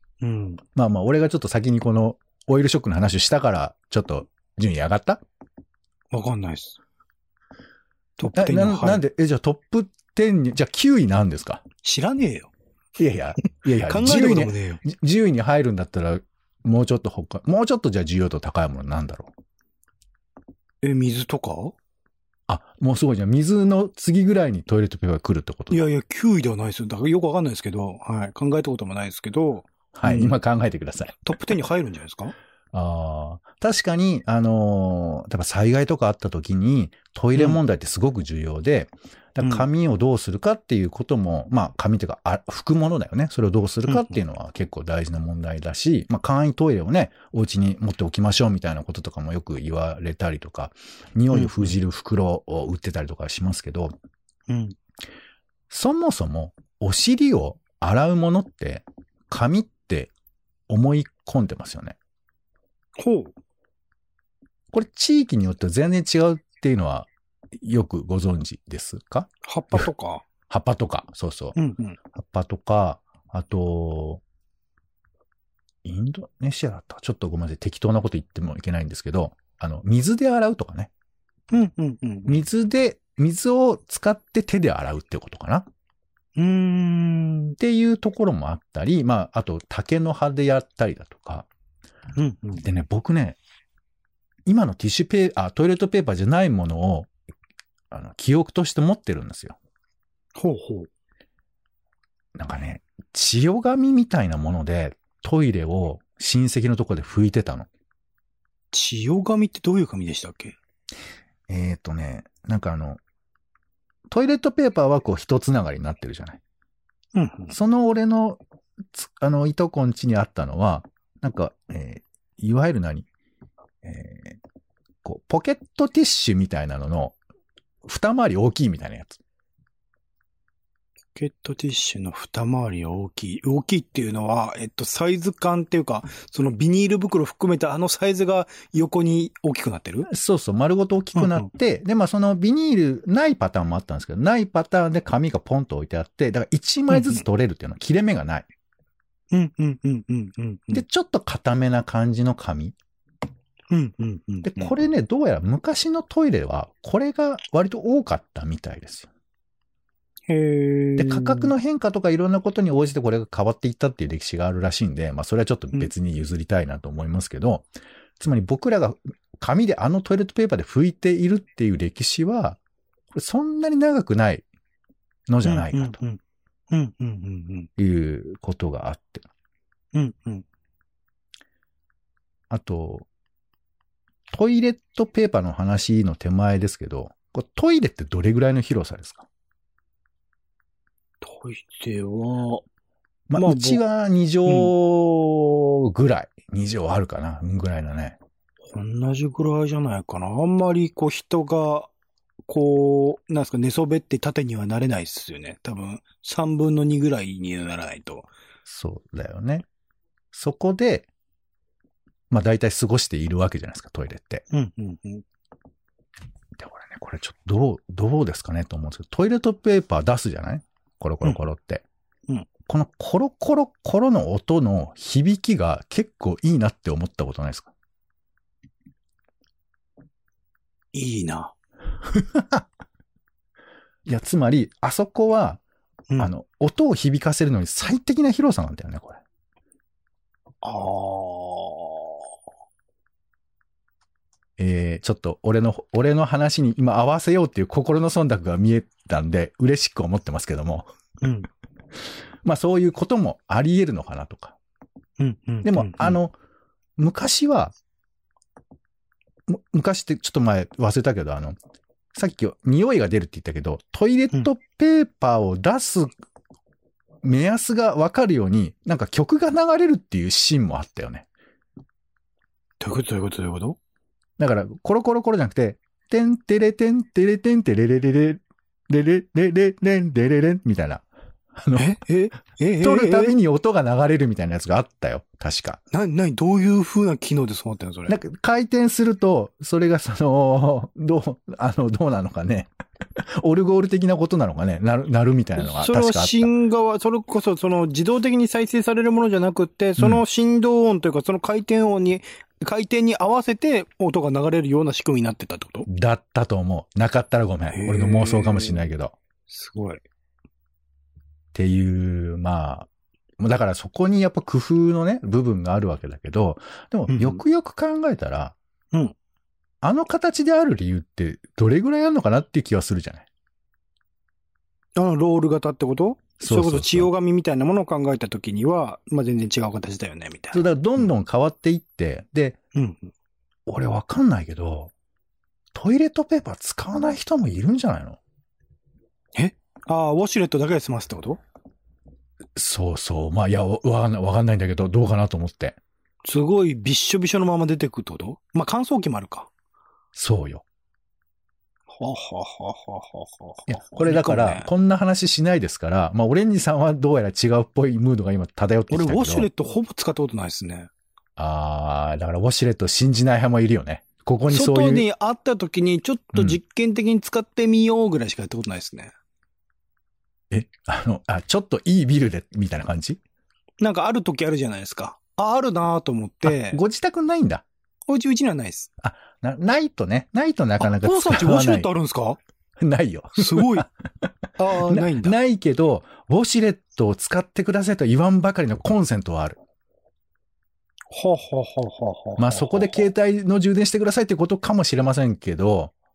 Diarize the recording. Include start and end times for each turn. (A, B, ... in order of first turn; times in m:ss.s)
0:00.2-0:00.6 A
0:00.7-0:05.2 B
0:06.1-0:06.8 A
0:08.2-0:09.0 A
0:08.3-0:11.6 B
0:11.8-0:12.5 A
0:13.0-0:19.3 B
0:13.4-0:14.8 A
0:20.8-0:21.8 A
0:22.5-0:25.8 B
0:25.7-0:30.4 A
0:29.9-0:31.2 B
0:31.2-0:32.3 A
0:32.7-0:53.9 B
0:37.3-0:37.6 A
0:39.4-0:39.7 A
0:43.8-0:44.2 A
0:51.3-0:51.7 A
0:54.5-0:54.8 A
0:55.7-1:00.1 B
1:00.7-1:02.0 B
1:03.0-1:03.3 A
1:04.7-1:09.9 B
1:09.4-1:10.2 A
1:10.5-1:11.6 B
1:11.5-1:12.0 A
1:12.1-1:14.2 B
1:15.8-1:20.9 B
1:21.5-1:22.4 A
1:22.3-1:25.7 B
1:26.4-1:27.6 A
1:27.6-1:31.5 B
1:32.2-1:32.6 A
1:32.6-1:33.4 B
1:34.4-1:37.1 B
1:37.9-1:39.6 B
1:40.4-1:40.9 A
1:42.3-1:47.7 B
1:48.7-1:50.6 A
1:51.5-1:53.0 B
1:54.1-1:56.4 B
1:57.1-1:57.5 A
1:57.5-1:58.4 B
1:58.9-2:03.1 B
2:03.8-2:04.4 B
2:05.0-2:07.2 B
2:07.8-2:09.2 B
2:11.1-2:20.1 A
2:20.1-2:28.5 B
2:21.1-2:21.5 A
2:26.9-2:27.2 A
2:29.3-2:30.8 A
2:30.7-2:32.8 B
2:33.7-2:34.7 A
2:34.4-2:39.1 B
2:40.3-2:41.5 A
2:41.0-2:47.7 B
2:48.2-2:52.6 B
2:53.1-2:54.4 B
2:55.3-2:56.0 B
2:55.4-2:56.2 A
2:56.7-2:57.7 A
2:57.8-2:59.2 B
2:59.9-3:00.4 A
3:02.5-3:03.1 B
3:04.3-3:09.3 B
3:11.2-3:12.6 A
3:13.3-3:18.2 B
3:13.4-3:13.8 A
3:14.4-3:14.7 A
3:18.7-3:21.9 A
3:22.5-3:28.3 A
3:28.6-3:29.6 B
3:30.3-3:31.1 B
3:32.3-3:34.4 B
3:34.5-3:35.2 A
3:36.6-3:41.8 B
3:42.6-3:47.7 B
3:50.9-3:51.5 A
3:52.1-3:52.6 B
3:54.0-3:55.6 B
3:56.2-3:59.2 B
4:00.6-4:02.3 A
4:04.6-4:10.9 B
4:11.2-4:11.5 A
4:12.4-4:14.6 B
4:15.2-4:16.2 A
4:15.6-4:16.3 B
4:17.0-4:17.7 B
4:19.5-4:21.6 B
4:22.1-4:26.1 B
4:27.2-4:31.3 B
4:32.8-4:33.8 A
4:34.4-4:41.0 B
4:41.5-4:42.0 B
4:41.7-4:43.4 A
4:42.8-4:45.8 B
4:45.9-4:48.2 A
4:48.1-4:56.5 B
4:55.6-5:05.9 A
5:00.0-5:00.2 B
5:05.9-5:09.1 B
5:07.7-5:08.9 A
5:09.5-5:10.0 A
5:11.5-5:12.9 B
5:13.4-5:18.6 B
5:17.1-5:17.4 A
5:19.8-5:23.3 B
5:25.0-5:30.7 A
5:26.4-5:27.1 B
5:30.5-5:32.6 B
5:32.7-5:33.1 A
5:33.7-5:34.9 B
5:35.7-5:38.2 B
5:39.3-5:41.4 A
5:42.6-5:45.8 B
5:46.2-5:49.5 A
5:50.1-5:50.6 B
5:51.9-5:54.7 A
5:53.7-5:59.5 B
5:58.9-6:00.9 A
6:01.4-6:05.0 B
6:04.5-6:09.1 A
6:06.3-6:06.6 B
6:10.5-6:13.2 B
6:13.8-6:16.8 A
6:16.4-6:17.6 B
6:18.1-6:18.9 A
6:19.0-6:21.9 B
6:20.8-6:22.4 A
6:22.8-6:29.6 B
6:23.4-6:23.9 A
6:24.6-6:25.4 A
6:31.1-6:33.0 A
6:32.4-6:35.9 B